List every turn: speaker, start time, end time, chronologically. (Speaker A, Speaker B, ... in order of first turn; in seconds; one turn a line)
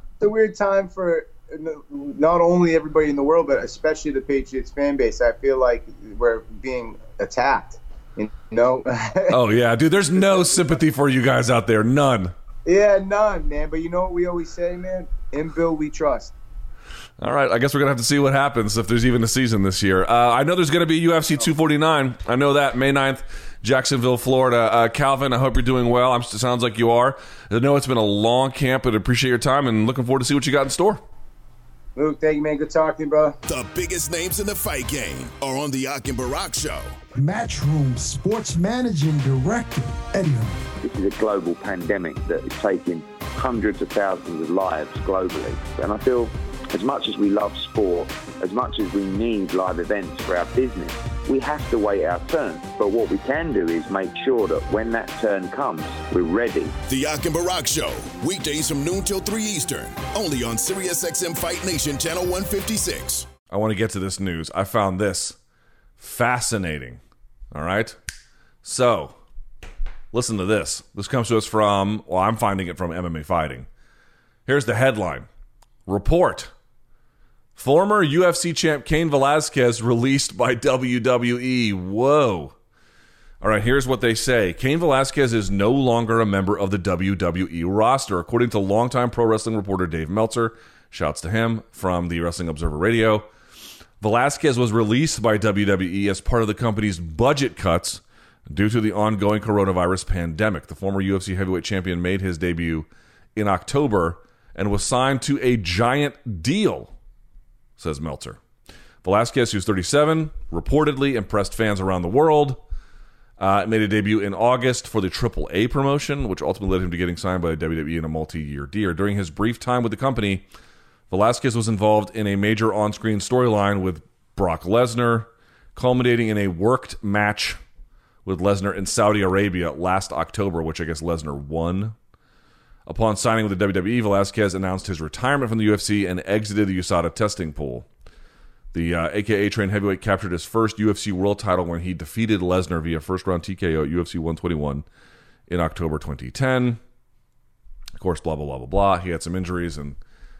Speaker A: 0.2-9.3
Speaker B: 9.3-12.3
Speaker A: 12.6-16.3
Speaker B: 17.2-31.0
Speaker A: 31.9-33.4
Speaker C: 33.5-37.0
Speaker D: 37.1-40.7
Speaker E: 40.8-56.8
Speaker C: 56.9-63.3
Speaker B: 63.5-65.4
Speaker B: 66.0-67.0
Speaker B: 67.5-68.0
Speaker B: 68.6-69.2
Speaker B: 70.1-73.7
Speaker B: 74.5-75.3
Speaker B: 75.9-76.5
Speaker B: 77.5-82.5
Speaker B: 83.4-93.3
Speaker B: 94.0-106.9
Speaker B: 107.8-108.4
Speaker B: 109.0-112.6
Speaker B: 113.4-120.4
Speaker B: 121.1-127.6
Speaker B: 128.2-131.9
Speaker B: 132.9-137.9
Speaker B: 138.7-144.8
Speaker B: 145.5-146.8
Speaker B: 148.0-150.0